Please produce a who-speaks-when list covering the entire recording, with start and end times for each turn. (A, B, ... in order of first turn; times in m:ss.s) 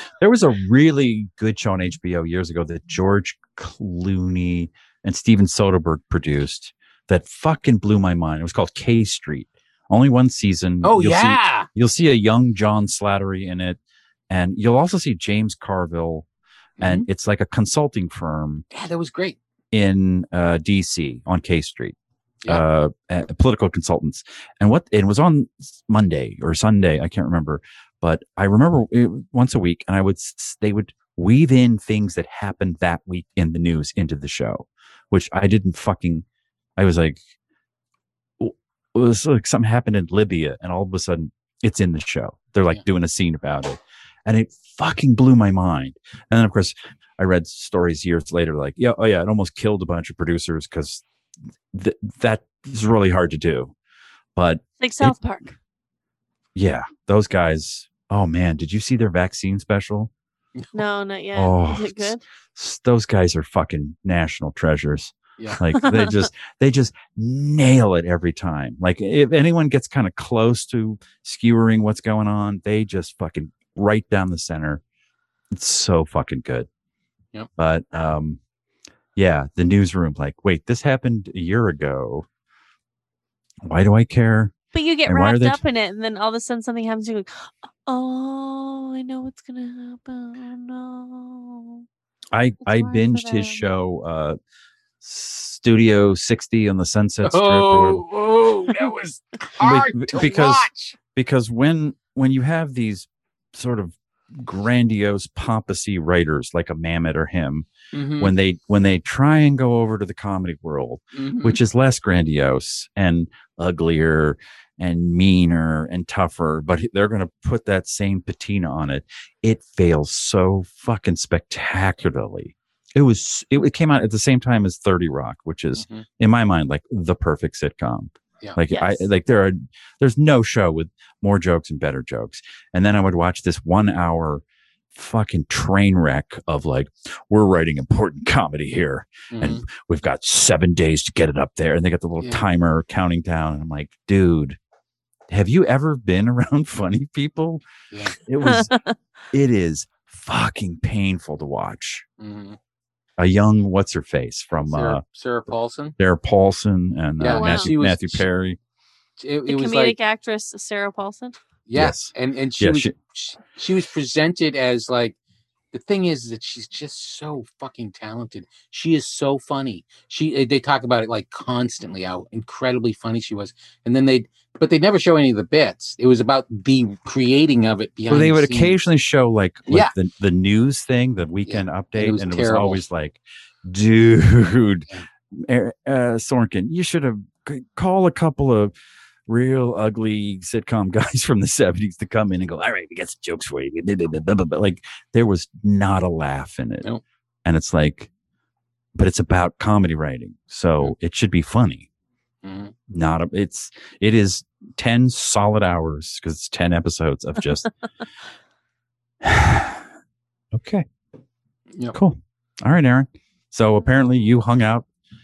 0:00.2-0:16.3 A
0:10.8-0:11.7 B
0:16.8-0:17.1 B
0:16.8-0:18.6 A
0:18.7-0:19.4 B
0:19.7-0:36.2 A
0:36.8-0:37.2 A
0:38.4-0:51.0 A
0:51.7-0:53.8 A
0:54.4-0:55.2 A
0:54.8-0:55.6 C
0:56.6-1:00.1 A
1:00.7-1:02.2 C
1:01.4-1:14.8 A
1:05.8-1:06.2 C
1:15.5-1:16.7 A
1:17.6-1:18.4 A
1:19.2-1:22.3 A
1:23.6-1:24.5 A
1:24.7-1:31.8 C
1:25.1-1:25.6 A
1:32.3-1:34.4 A
1:32.6-1:33.6 C
1:35.0-1:38.0 A
1:37.2-1:41.0 B
1:39.6-1:47.7 A
1:47.9-1:48.3 B
1:48.2-2:24.6 A
1:51.2-1:51.6 B
2:05.8-2:06.0 B
2:08.7-2:09.1 C
2:19.3-2:19.6 B
2:25.3-2:27.6 A
2:27.9-2:28.2 B
2:28.2-2:28.7 A
2:28.4-2:29.0 C
2:29.3-2:32.0 A
2:32.2-2:32.6 B
2:33.2-2:35.0 A
2:34.7-2:36.0 B
2:36.0-2:38.6 A
2:37.2-2:38.2 B
2:37.3-2:37.7 C
2:39.2-2:40.0 B
2:39.5-2:41.4 C
2:41.7-2:45.2 B
2:41.8-2:42.9 A
2:45.7-2:58.8 B
2:58.1-3:08.7 A
2:59.7-2:59.9 B
3:01.5-3:02.8 B
3:09.3-3:16.9 A
3:17.4-3:18.1 A
3:19.0-3:21.9 A
3:22.4-3:22.7 B
3:22.9-3:27.7 A
3:29.2-3:29.8 A
3:30.5-3:30.8 A
3:31.9-3:34.9 A